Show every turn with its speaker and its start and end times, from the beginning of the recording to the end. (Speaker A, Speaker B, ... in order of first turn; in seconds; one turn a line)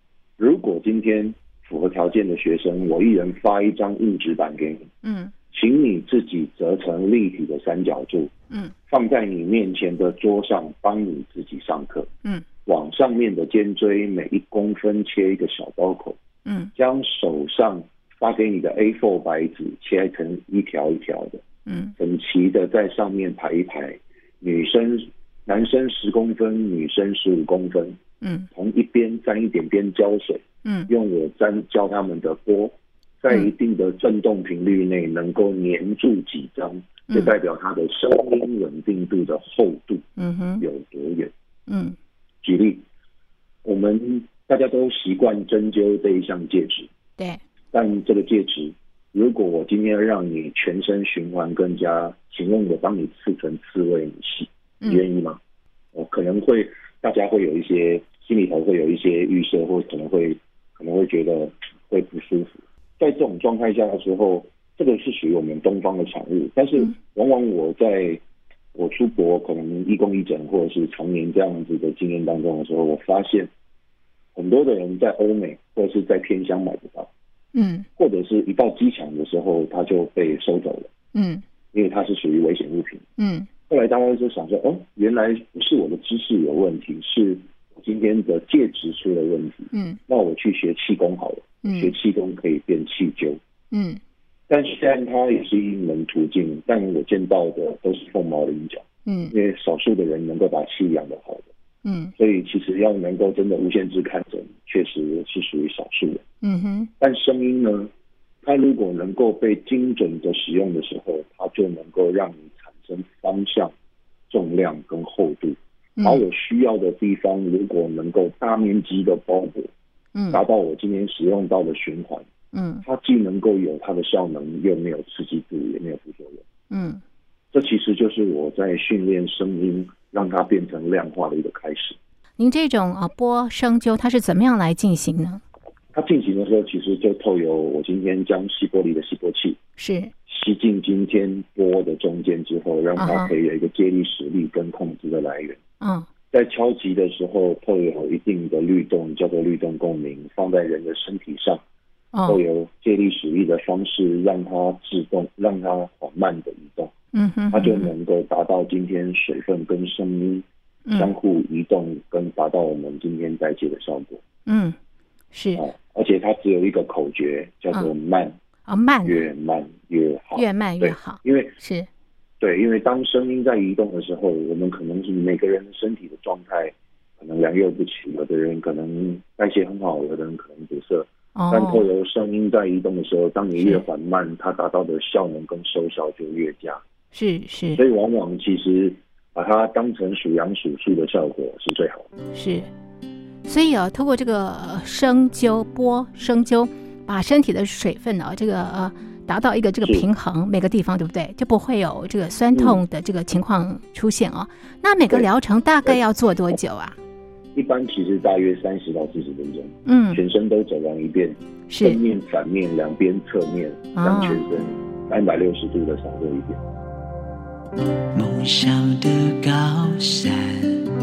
Speaker A: 0.4-4.9
Speaker A: 5.5-8.3
Speaker A: 8.9-12.1
Speaker A: 12.7-16.2
Speaker A: 16.8-21.4
Speaker A: 22.0-28.0
Speaker A: 28.5-40.1
Speaker B: 40.2-40.6
Speaker A: 40.6-41.3
Speaker A: 42.4-42.9
Speaker A: 43.6-46.9
Speaker A: 47.7-55.4
Speaker A: 55.9-68.2
Speaker A: 68.7-73.5
Speaker A: 74.3-77.1
Speaker B: 77.6-77.8
Speaker A: 78.0-80.9
Speaker B: 81.2-81.4
Speaker A: 81.7-83.0
Speaker B: 83.2-83.5
Speaker A: 83.7-93.4
Speaker B: 91.7-91.9
Speaker B: 93.7-94.0
Speaker A: 94.5-101.5
Speaker B: 99.1-99.3
Speaker B: 101.9-102.1
Speaker A: 102.2-106.2
Speaker B: 106.4-106.9
Speaker A: 107.0-107.9
Speaker A: 108.4-113.7
Speaker A: 114.3-119.7
Speaker B: 120.2-120.4
Speaker A: 120.3-122.3
Speaker B: 122.5-122.8
Speaker A: 122.8-126.5
Speaker B: 126.7-127.0
Speaker A: 127.5-132.0
Speaker B: 132.4-135.4
Speaker A: 135.9-139.6
Speaker B: 139.8-140.1
Speaker A: 140.3-145.6
Speaker B: 143.0-143.3
Speaker A: 146.3-151.6
Speaker B: 152.2-152.4
Speaker A: 152.2-156.9
Speaker B: 157.2-157.9
Speaker A: 157.5-164.2
Speaker B: 160.9-161.1
Speaker B: 164.5-164.7
Speaker B: 165.3-165.6
Speaker A: 165.6-168.4
Speaker B: 168.7-169.2
Speaker A: 169.0-171.6
Speaker B: 170.3-171.9
Speaker A: 172.4-186.8
Speaker B: 181.4-181.8
Speaker B: 187.2-187.8
Speaker A: 187.8-192.1
Speaker B: 192.3-192.6
Speaker B: 193.5-206.9
Speaker A: 199.8-200.1
Speaker A: 202.5-202.8
Speaker A: 205.1-206.0
Speaker A: 207.6-216.6
Speaker B: 209.9-210.2
Speaker B: 211.7-212.0
Speaker B: 214.0-214.4
Speaker C: 218.1-220.8